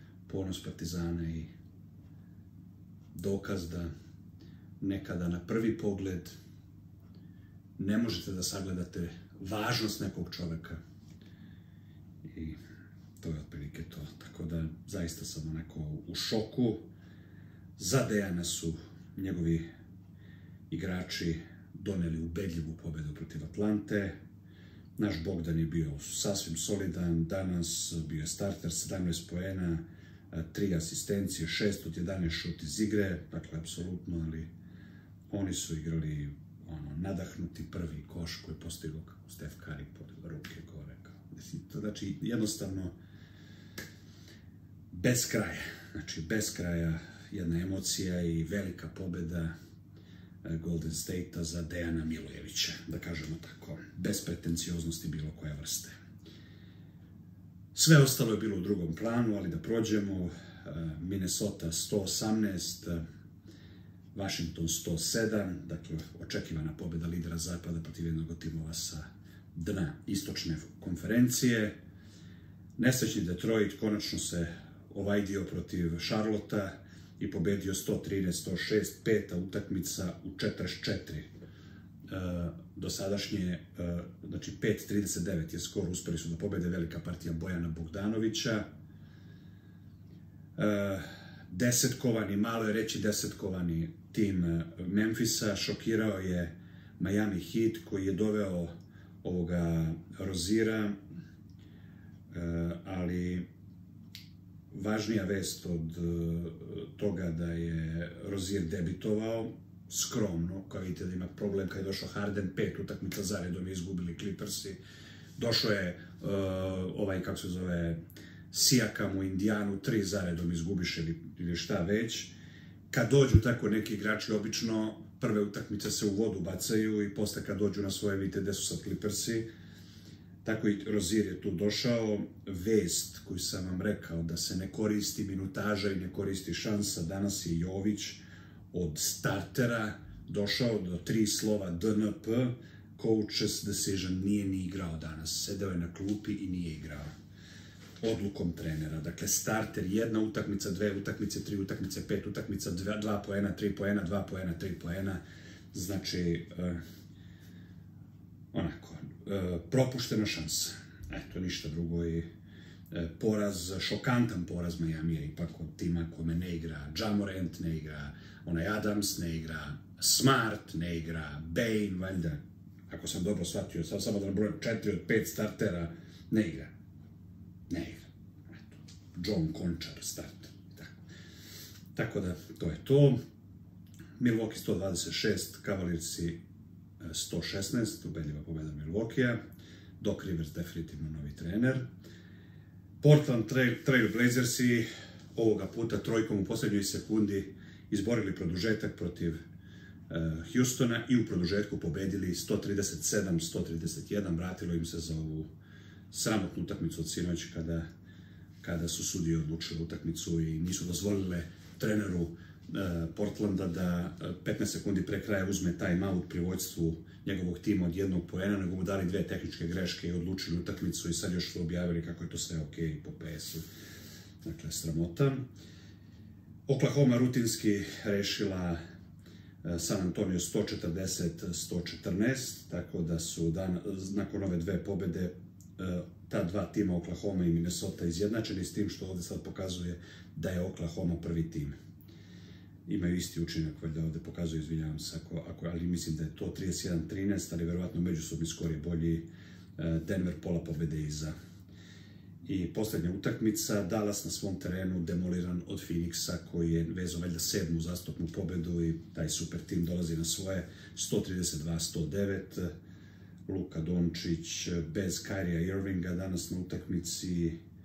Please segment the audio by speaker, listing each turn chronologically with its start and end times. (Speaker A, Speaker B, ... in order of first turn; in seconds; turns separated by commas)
Speaker A: 0.3-1.5, Speaker A: 3.1-3.9, Speaker A: 4.8-6.3, Speaker A: 7.8-10.8, Speaker A: 12.2-12.6, Speaker A: 13.2-16.9, Speaker A: 17.8-19.6, Speaker A: 20.7-24.2, Speaker A: 25.0-34.5, Speaker A: 35.3-42.9, Speaker A: 44.9-49.5, Speaker A: 50.4-55.9, Speaker A: 57.7-63.0, Speaker A: 64.1-71.8, Speaker A: 72.8-81.3, Speaker A: 82.1-88.7, Speaker A: 90.6-101.0, Speaker A: 102.3-103.5, Speaker A: 104.7-114.8, Speaker A: 115.4-118.0, Speaker A: 118.5-122.3, Speaker A: 122.9-129.5, Speaker A: 130.4-147.1, Speaker A: 148.0-155.2, Speaker A: 155.7-156.8, Speaker A: 158.5-162.3, Speaker A: 162.9-176.7, Speaker A: 177.7-181.0, Speaker A: 181.9-183.2, Speaker A: 184.2-186.4, Speaker A: 187.0-189.4, Speaker A: 190.0-191.8, Speaker A: 193.0-199.4, Speaker A: 200.1-205.5, Speaker A: 206.1-207.9, Speaker A: 208.6-223.7, Speaker A: 224.4-225.4, Speaker A: 226.7-228.8, Speaker A: 229.6-241.8, Speaker A: 242.9-251.3, Speaker A: 252.4-262.7, Speaker A: 263.5-267.6